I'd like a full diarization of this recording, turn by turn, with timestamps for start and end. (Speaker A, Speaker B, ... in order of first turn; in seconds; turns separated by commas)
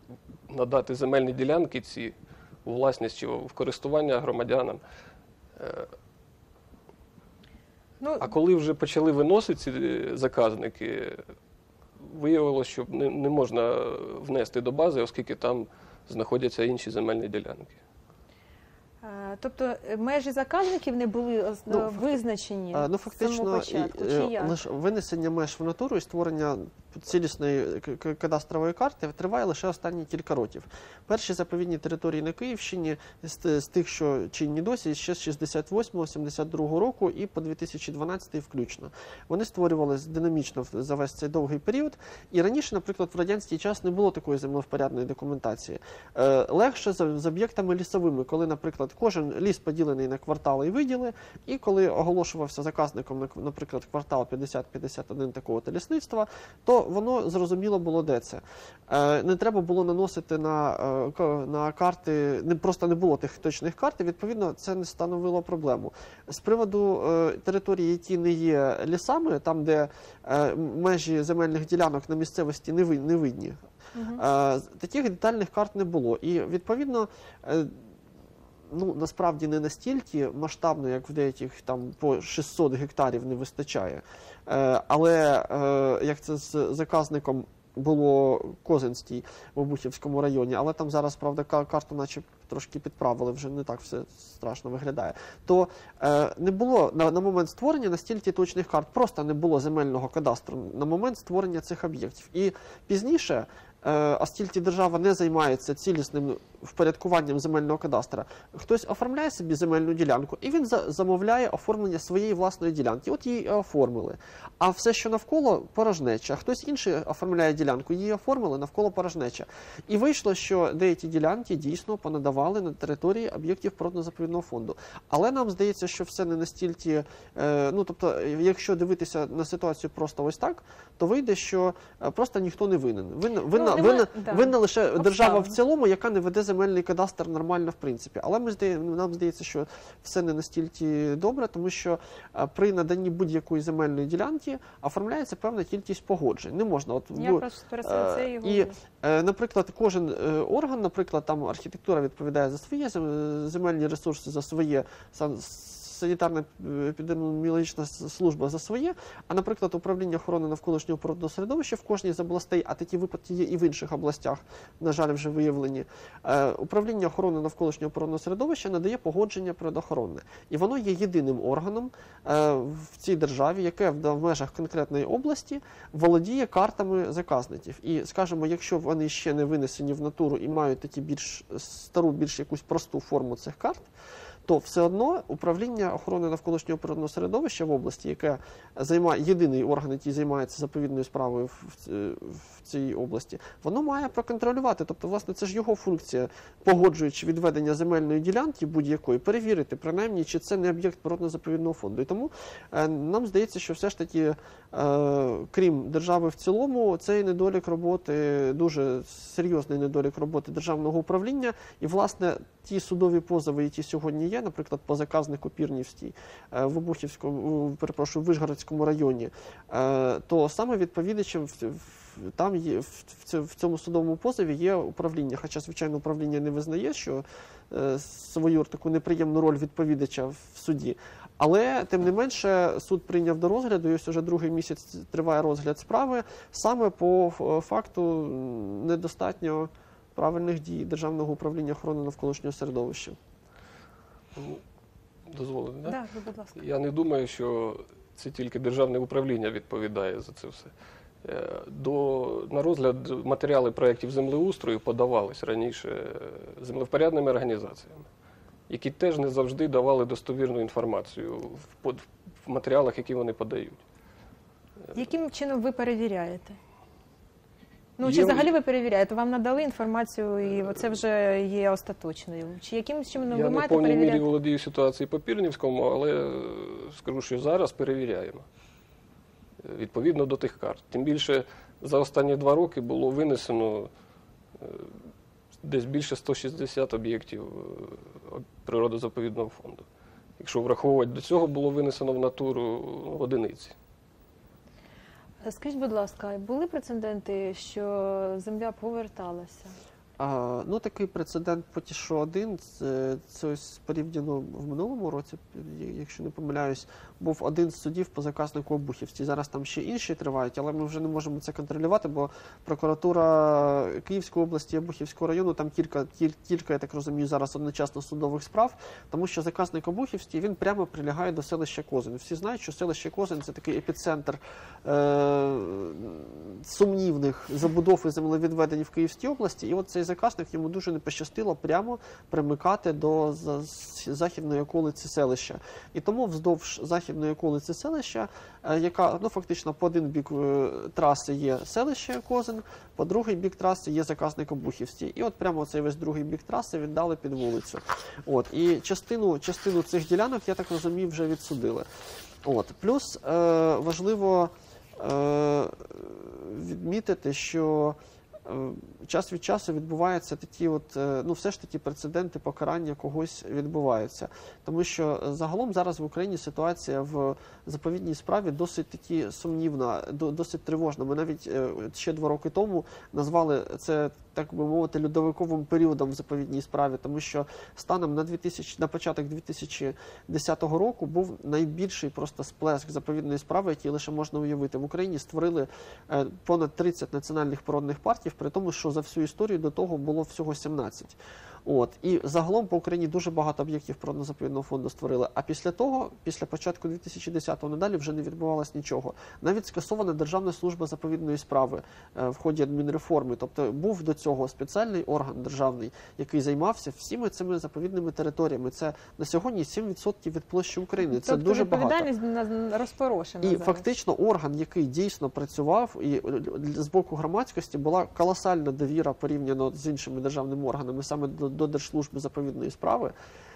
Speaker A: 0.5-4.8, Speaker A: 5.5-5.9, Speaker B: 8.0-8.3, Speaker A: 8.2-11.2, Speaker A: 12.0-17.8, Speaker B: 19.0-24.6, Speaker C: 21.7-22.0, Speaker C: 22.7-73.6, Speaker B: 73.9-74.2, Speaker C: 74.2-77.7, Speaker C: 78.7-183.9, Speaker B: 133.5-135.5, Speaker B: 147.2-148.8, Speaker C: 184.4-243.2, Speaker A: 244.3-244.6, Speaker A: 245.3-246.0, Speaker B: 245.8-246.6, Speaker A: 246.6-258.1, Speaker A: 258.7-263.8, Speaker B: 264.9-266.6, Speaker B: 268.0-274.2, Speaker A: 268.0-268.5, Speaker A: 273.3-278.4, Speaker A: 279.6-283.9, Speaker A: 284.6-284.9, Speaker A: 285.6-289.8, Speaker A: 290.4-293.7, Speaker B: 295.4-299.8, Speaker C: 300.2-351.9, Speaker C: 352.4-412.1, Speaker B: 411.0-413.9, Speaker C: 413.4-423.1